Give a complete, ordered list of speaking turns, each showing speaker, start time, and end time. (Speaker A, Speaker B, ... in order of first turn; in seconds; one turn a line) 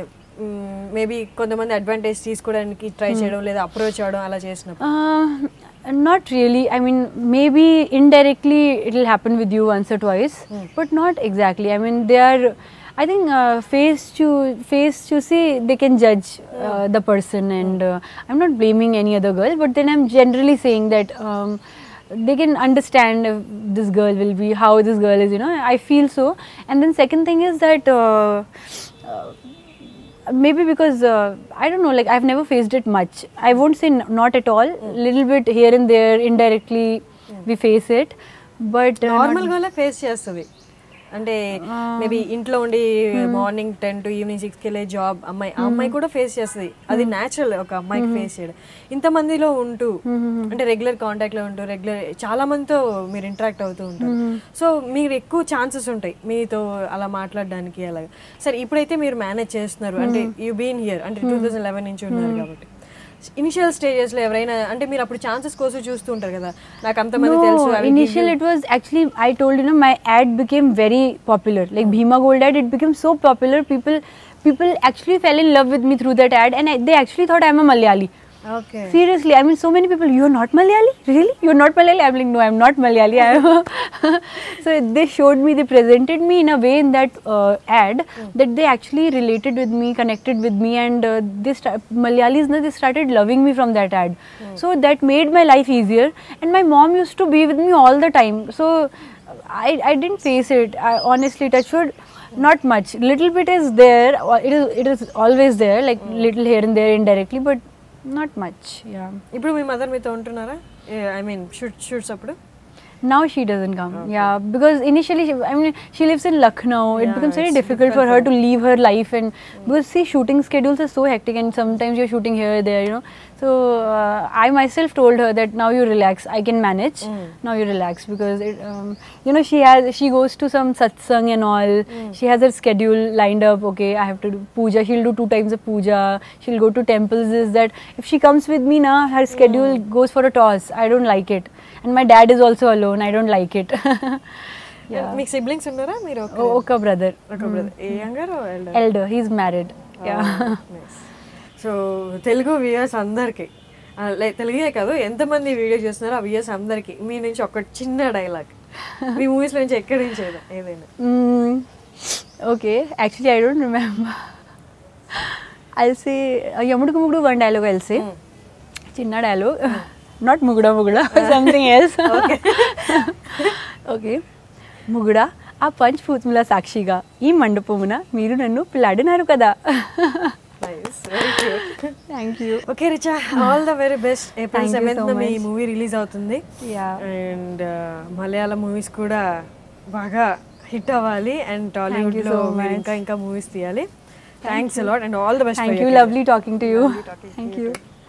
Speaker A: 0.4-4.8
Speaker B: 4.8-29.4
Speaker A: 16.5-16.8
Speaker B: 30.3-39.5
Speaker A: 39.0-40.5
Speaker A: 41.1-49.9
Speaker B: 41.6-42.2
Speaker B: 43.2-43.4
Speaker B: 45.6-45.9
Speaker B: 48.0-48.3
Speaker B: 50.0-50.5
Speaker A: 50.5-62.7
Speaker B: 54.0-54.4
Speaker B: 60.0-60.3
Speaker B: 61.2-61.5
Speaker B: 62.1-62.5
Speaker A: 63.2-68.3
Speaker B: 67.2-78.1
Speaker A: 78.5-79.0
Speaker B: 78.9-109.2
Speaker A: 106.0-106.3
Speaker A: 109.3-112.4
Speaker B: 113.0-145.2
Speaker A: 113.9-114.3
Speaker A: 116.9-118.3
Speaker A: 127.0-127.3
Speaker A: 139.3-139.8
Speaker A: 144.9-146.7
Speaker B: 146.3-148.0
Speaker A: 147.3-148.8
Speaker B: 148.7-150.6
Speaker A: 150.0-158.5
Speaker A: 159.1-160.9
Speaker B: 161.0-164.3
Speaker B: 165.1-168.1
Speaker B: 168.9-174.2
Speaker A: 171.1-173.5
Speaker B: 174.9-180.3
Speaker A: 180.6-181.9
Speaker B: 181.2-182.6
Speaker A: 182.6-186.4
Speaker B: 184.5-185.4
Speaker B: 186.6-187.0
Speaker A: 187.0-189.3
Speaker A: 189.9-193.9
Speaker B: 191.9-193.0
Speaker B: 194.4-194.9
Speaker A: 194.4-197.8
Speaker B: 195.5-197.8